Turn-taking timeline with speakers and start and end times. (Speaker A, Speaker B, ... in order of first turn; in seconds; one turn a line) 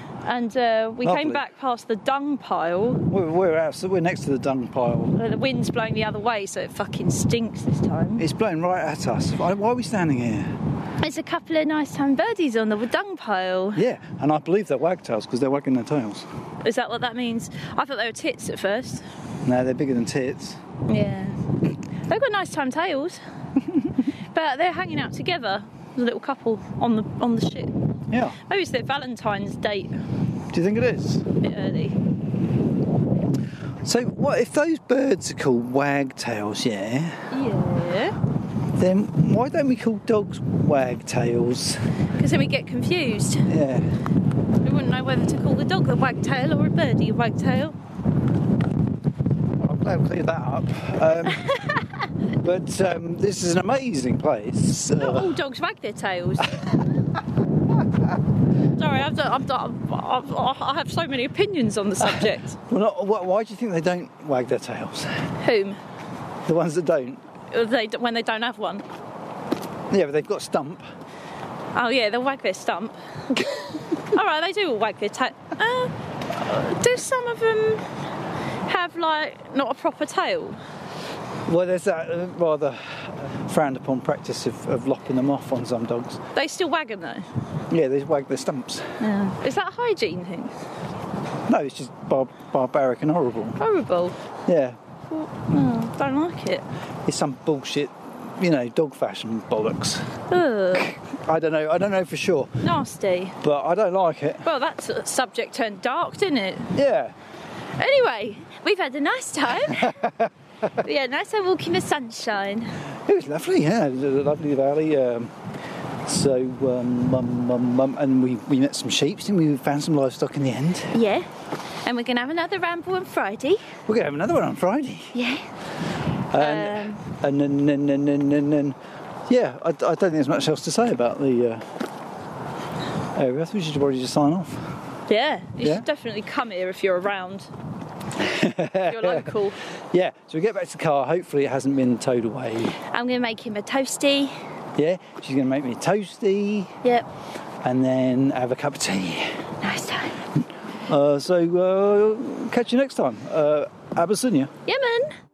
Speaker A: 0.2-3.1
Speaker B: 1.0-1.4
Speaker B: 3.1-5.1
Speaker A: 5.1-8.2
Speaker B: 8.2-10.5
Speaker A: 11.0-13.8
Speaker B: 13.8-16.3
Speaker A: 16.6-19.0
Speaker B: 19.4-20.6
Speaker A: 20.9-21.4
Speaker A: 22.1-23.2
Speaker A: 24.3-27.7
Speaker B: 28.1-28.4
Speaker A: 28.4-29.9
Speaker B: 30.5-31.3
Speaker A: 31.4-32.0
Speaker B: 33.8-37.2
Speaker A: 37.3-38.1
Speaker B: 38.8-41.8
Speaker A: 42.2-43.5
Speaker B: 43.5-43.9
Speaker A: 44.6-47.8
Speaker B: 49.6-51.5
Speaker A: 51.3-51.9
Speaker B: 52.4-55.3
Speaker A: 54.9-56.6
Speaker A: 58.7-62.6
Speaker B: 62.1-65.2
Speaker A: 65.4-65.8
Speaker B: 66.5-67.2
Speaker A: 67.5-68.8
Speaker B: 69.9-70.8
Speaker A: 71.7-77.8
Speaker A: 78.7-80.6
Speaker B: 81.5-86.2
Speaker A: 86.3-87.3
Speaker B: 87.7-89.0
Speaker A: 89.0-90.5
Speaker B: 91.5-93.6
Speaker A: 93.6-94.2
Speaker B: 94.5-94.8
Speaker A: 95.1-96.6
Speaker B: 97.0-100.1
Speaker A: 100.3-100.9
Speaker B: 100.7-102.5
Speaker A: 102.6-103.4
Speaker B: 103.4-104.5
Speaker A: 104.4-106.7
Speaker B: 106.8-107.1
Speaker A: 107.8-110.1
Speaker B: 109.7-110.3
Speaker A: 110.8-112.7
Speaker B: 113.0-115.3
Speaker B: 116.0-121.0
Speaker A: 120.9-121.3
Speaker A: 121.8-123.7
Speaker B: 123.9-125.1
Speaker A: 125.1-125.4
Speaker B: 126.3-131.7
Speaker A: 126.4-127.0
Speaker B: 133.1-134.7
Speaker A: 135.1-137.5
Speaker B: 135.6-135.8
Speaker B: 138.2-139.3
Speaker A: 138.8-139.6
Speaker B: 139.9-142.8
Speaker A: 142.9-144.3
Speaker B: 144.8-146.8
Speaker B: 147.6-149.4
Speaker A: 149.6-150.2
Speaker B: 150.9-154.5
Speaker A: 154.7-155.1